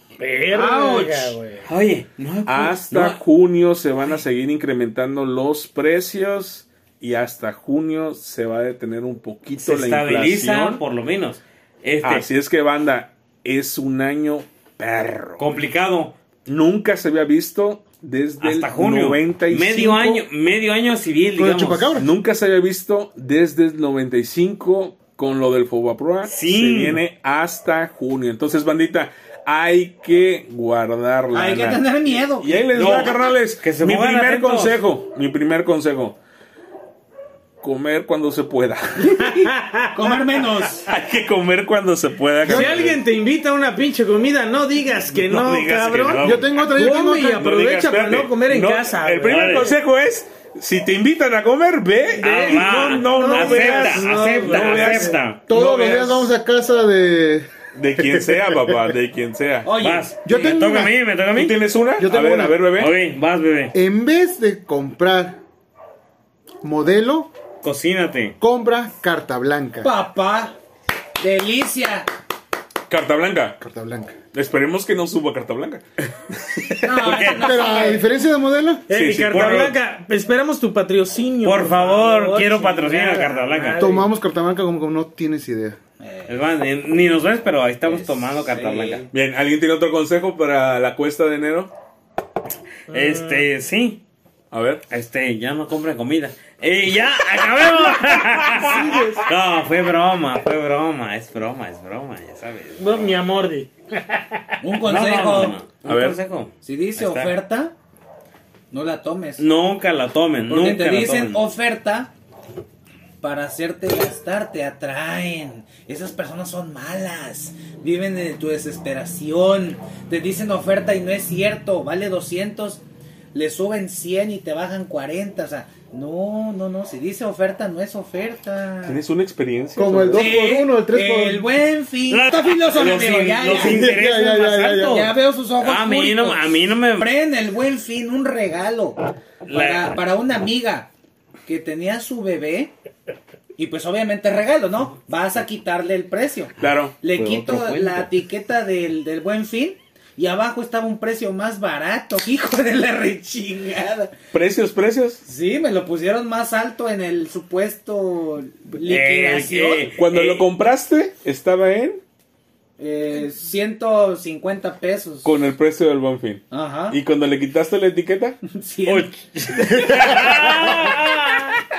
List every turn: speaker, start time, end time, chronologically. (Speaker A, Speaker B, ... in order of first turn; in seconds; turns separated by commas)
Speaker A: 0.2-1.6, Speaker B: 0.5-1.4, Speaker C: 1.6-3.2, Speaker D: 2.5-10.8, Speaker C: 9.6-12.3, Speaker D: 12.0-15.5, Speaker C: 15.4-16.1, Speaker D: 16.4-20.2, Speaker C: 18.4-21.9, Speaker E: 21.4-22.1, Speaker D: 21.9-31.8, Speaker C: 26.2-27.0, Speaker B: 31.3-33.0, Speaker D: 32.4-36.2, Speaker C: 32.7-34.8, Speaker D: 37.6-39.2, Speaker B: 39.0-40.9, Speaker A: 39.2-40.2, Speaker D: 40.9-43.0, Speaker A: 42.4-49.7, Speaker E: 42.5-42.8, Speaker D: 45.1-46.5, Speaker E: 46.2-47.5, Speaker D: 47.3-56.3, Speaker C: 49.3-49.7, Speaker A: 52.2-55.1, Speaker C: 52.2-55.4, Speaker E: 55.5-58.9, Speaker D: 57.8-59.7, Speaker B: 59.6-60.1, Speaker C: 59.8-61.6, Speaker E: 60.2-60.9, Speaker D: 61.3-62.9, Speaker E: 62.0-62.7, Speaker C: 62.8-63.7, Speaker E: 63.7-65.4, Speaker E: 66.6-67.3, Speaker C: 67.6-68.4, Speaker E: 68.4-69.9, Speaker B: 69.8-70.5, Speaker B: 71.2-72.1, Speaker D: 72.9-73.6, Speaker E: 73.6-74.2, Speaker D: 74.3-77.4, Speaker B: 76.7-78.1, Speaker C: 77.0-77.4, Speaker E: 77.3-78.9, Speaker A: 78.9-84.1, Speaker D: 78.9-79.8, Speaker C: 79.4-79.7, Speaker C: 81.4-83.8, Speaker E: 83.8-85.8, Speaker B: 86.0-86.5, Speaker C: 86.3-89.1, Speaker B: 87.8-89.1, Speaker D: 89.1-91.7, Speaker C: 92.9-94.0, Speaker A: 92.9-93.5, Speaker D: 94.5-94.8, Speaker C: 94.9-103.1, Speaker B: 98.7-99.2, Speaker A: 102.8-104.5, Speaker B: 104.6-105.6, Speaker C: 104.8-107.3, Speaker D: 105.9-106.2, Speaker B: 106.6-107.8, Speaker B: 108.7-109.4, Speaker C: 109.4-111.4, Speaker B: 110.5-112.1, Speaker B: 113.2-122.8, Speaker B: 123.3-129.0, Speaker D: 128.8-130.4, Speaker E: 129.8-131.5, Speaker B: 130.1-134.0, Speaker C: 132.1-134.9, Speaker E: 133.5-135.1, Speaker B: 134.7-140.9, Speaker C: 135.6-137.1, Speaker C: 139.4-140.0, Speaker B: 141.4-142.7, Speaker B: 143.6-154.1, Speaker D: 146.6-148.0, Speaker C: 147.5-148.0, Speaker D: 154.3-155.2, Speaker B: 155.2-159.9, Speaker C: 158.8-160.5, Speaker D: 159.9-162.0, Speaker B: 162.8-165.3, Speaker D: 165.2-168.4, Speaker B: 166.5-167.0, Speaker B: 168.5-169.1, Speaker C: 168.9-171.6